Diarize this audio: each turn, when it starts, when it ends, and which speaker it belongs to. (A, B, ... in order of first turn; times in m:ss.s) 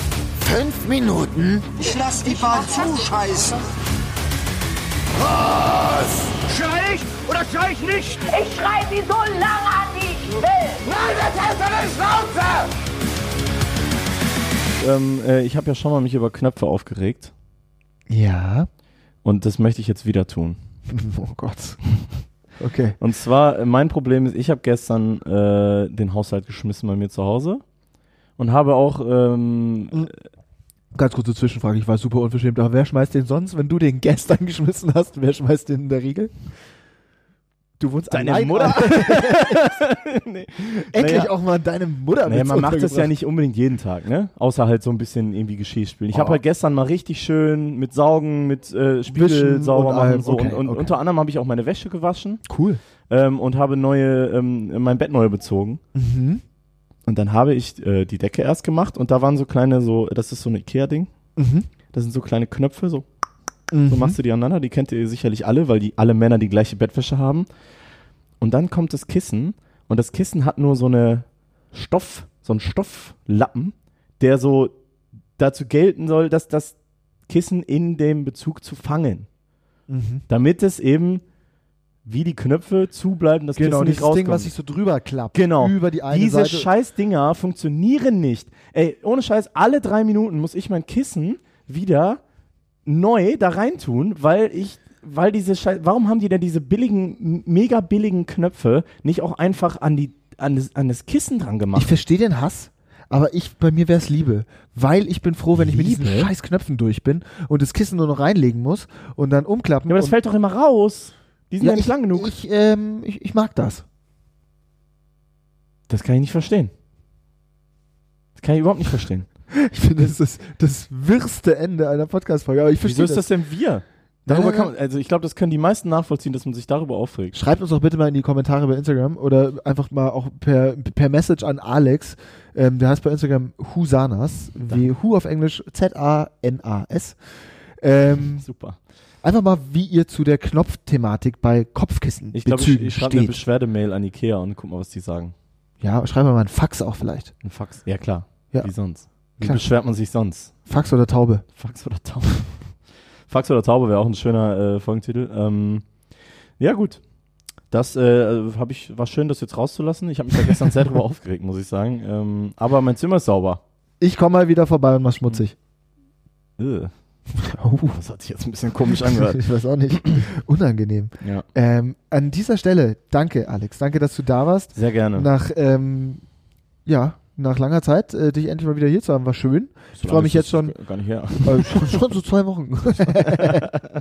0:00.4-0:01.6 A
0:01.6-0:03.6 B
0:05.2-0:08.3 B
0:08.3-0:10.9 C
0:10.9-0:12.7 B
0:14.8-0:17.3 D
0:18.1-0:18.7 A
0:19.2-0:20.6 D
0:20.9-0:21.9 A
0:22.6-0:23.0 A
0:23.0-0:27.6 D
0:28.4-0:30.1 D
0:30.9-0:36.3 A
0:37.8-0:39.7 A
0:38.1-0:41.3 D
0:40.9-0:43.1 A
0:42.2-0:52.4 D
0:46.1-0:46.4 A
0:49.1-0:51.0 A
0:52.4-0:52.8 A
0:53.1-0:55.8 D
0:56.0-0:56.4 A
0:57.0-1:01.1 D
1:01.4-1:01.7 A
1:01.9-1:03.0 D
1:03.7-1:04.2 A
1:03.9-1:07.5 D
1:08.4-1:14.8 D
1:15.4-1:16.8 D
1:17.3-1:19.3 D
1:19.9-1:20.3 A
1:20.3-1:21.2 D
1:22.0-1:24.5 D
1:23.6-1:26.7 A
1:25.3-1:32.2 D
1:32.9-1:41.9 D
1:41.7-1:50.1 A
1:45.6-1:46.3 D
1:49.9-1:52.3 D
1:51.6-1:53.8 A
1:55.9-1:56.7 D
1:58.4-1:59.3 D
1:59.6-2:03.3 A
2:02.8-2:07.4 D
2:04.3-2:04.7 A
2:07.3-2:17.2 A
2:17.8-2:18.5 A
2:18.4-2:18.8 D
2:19.2-2:23.4 A
2:22.3-2:25.3 D
2:25.8-2:27.3 A
2:27.4-2:30.5 D
2:28.5-2:29.7 A
2:30.7-2:31.4 A
2:31.6-2:32.8 D
2:33.3-2:35.9 D
2:36.6-2:37.0 D
2:37.7-2:43.6 D
2:44.0-2:45.5 A
2:46.6-2:46.9 D
2:47.4-2:48.0 A
2:47.9-2:49.4 D
2:49.2-2:56.2 A
2:50.0-2:50.2 D
2:54.7-2:55.3 D
2:56.9-3:00.8 A
3:00.0-3:02.0 D
3:01.4-3:03.7 A
3:03.3-3:03.7 D